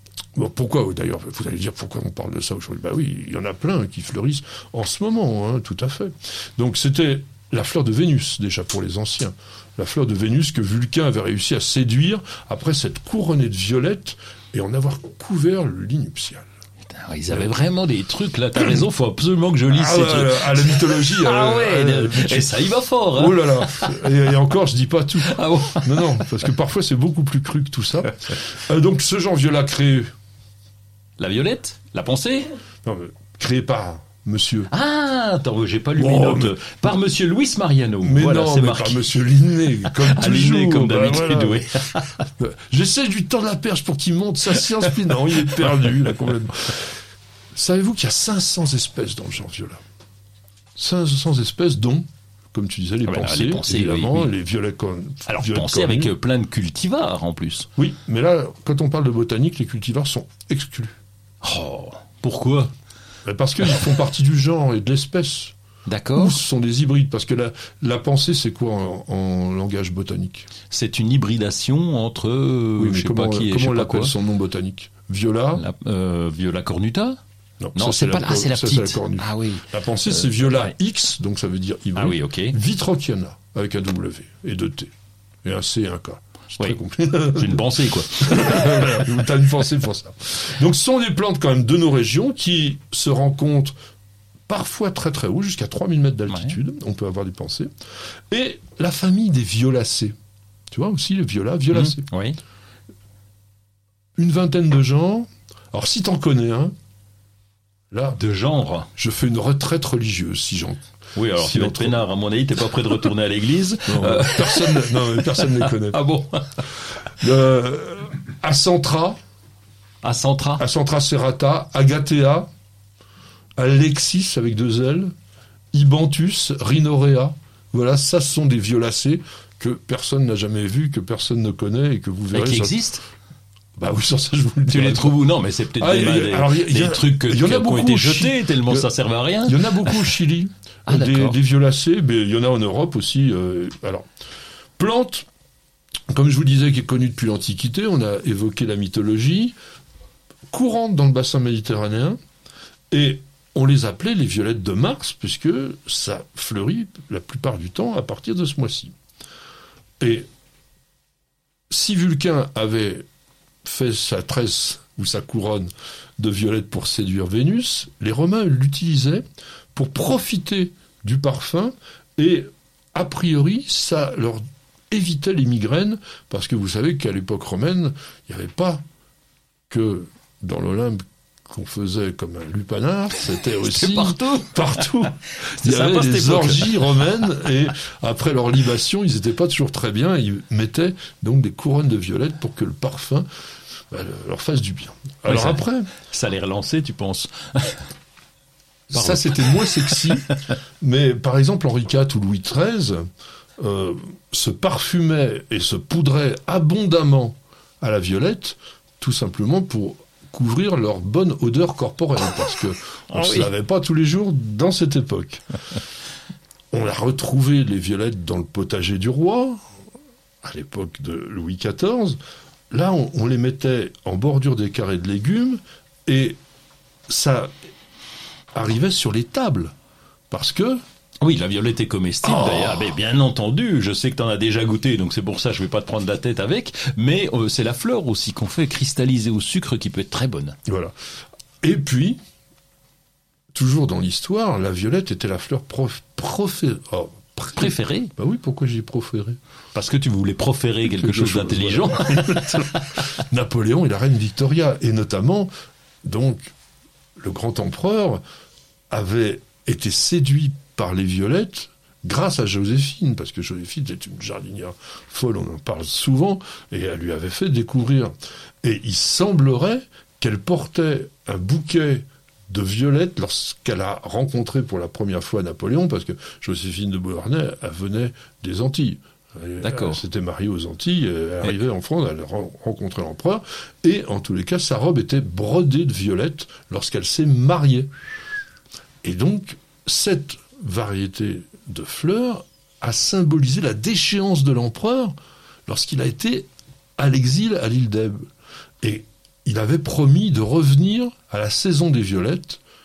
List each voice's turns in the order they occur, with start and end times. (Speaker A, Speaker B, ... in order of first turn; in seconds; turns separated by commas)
Speaker A: 0.3-16.5, Speaker B: 16.9-24.1, Speaker A: 19.7-22.6, Speaker A: 23.1-30.1, Speaker B: 25.2-26.3, Speaker B: 31.2-32.5, Speaker A: 32.9-34.7, Speaker B: 34.7-39.1, Speaker A: 36.0-36.6, Speaker A: 38.0-41.8, Speaker B: 39.9-42.2, Speaker A: 42.4-47.0, Speaker A: 47.5-49.8, Speaker A: 50.8-56.1, Speaker B: 53.1-54.3, Speaker B: 55.3-57.7, Speaker A: 57.8-61.0, Speaker B: 61.4-62.7, Speaker A: 63.2-65.5, Speaker B: 65.9-66.4, Speaker A: 66.2-70.5, Speaker B: 70.7-74.1, Speaker A: 72.8-75.7, Speaker B: 75.5-77.2, Speaker A: 77.6-84.9, Speaker B: 77.8-79.7, Speaker B: 82.0-82.6, Speaker A: 85.4-93.8, Speaker B: 87.3-88.9, Speaker A: 94.5-97.7, Speaker B: 96.3-96.5, Speaker A: 98.3-100.2, Speaker A: 100.7-102.0, Speaker B: 101.7-102.4, Speaker A: 104.2-106.8, Speaker A: 107.9-108.2, Speaker B: 108.2-108.9, Speaker A: 109.0-110.8, Speaker B: 111.2-116.5, Speaker A: 111.3-112.0, Speaker A: 113.9-116.0, Speaker A: 117.2-119.2, Speaker B: 120.0-120.6, Speaker A: 120.6-122.5, Speaker A: 123.6-125.1, Speaker A: 125.7-132.8, Speaker B: 132.3-133.0, Speaker A: 133.8-135.2, Speaker B: 134.7-140.0, Speaker A: 135.8-138.9, Speaker A: 139.4-144.1, Speaker B: 140.9-141.4, Speaker A: 144.8-145.3, Speaker A: 146.1-149.6, Speaker A: 150.5-152.2, Speaker A: 152.9-158.9, Speaker A: 160.0-160.3, Speaker A: 161.7-163.1, Speaker A: 163.6-178.8, Speaker A: 179.7-193.3, Speaker B: 183.6-184.8, Speaker B: 185.4-186.8, Speaker A: 193.9-195.9, Speaker B: 195.3-197.9, Speaker A: 198.9-200.3, Speaker B: 198.9-200.2, Speaker A: 200.8-203.1, Speaker A: 203.6-215.4, Speaker B: 213.1-213.5, Speaker A: 216.7-219.6, Speaker A: 220.4-222.2, Speaker A: 222.7-226.4, Speaker A: 227.1-227.6, Speaker A: 228.5-229.7, Speaker A: 230.3-230.8, Speaker B: 231.2-240.6, Speaker A: 232.2-232.8, Speaker A: 240.7-240.9, Speaker A: 241.6-242.2, Speaker A: 243.5-249.4, Speaker B: 247.6-248.1, Speaker B: 249.7-252.7, Speaker A: 250.8-255.5, Speaker A: 256.0-256.5, Speaker A: 257.2-258.2, Speaker A: 258.9-287.9, Speaker B: 279.6-280.0, Speaker A: 289.0-295.2, Speaker A: 295.7-298.3, Speaker A: 298.8-302.6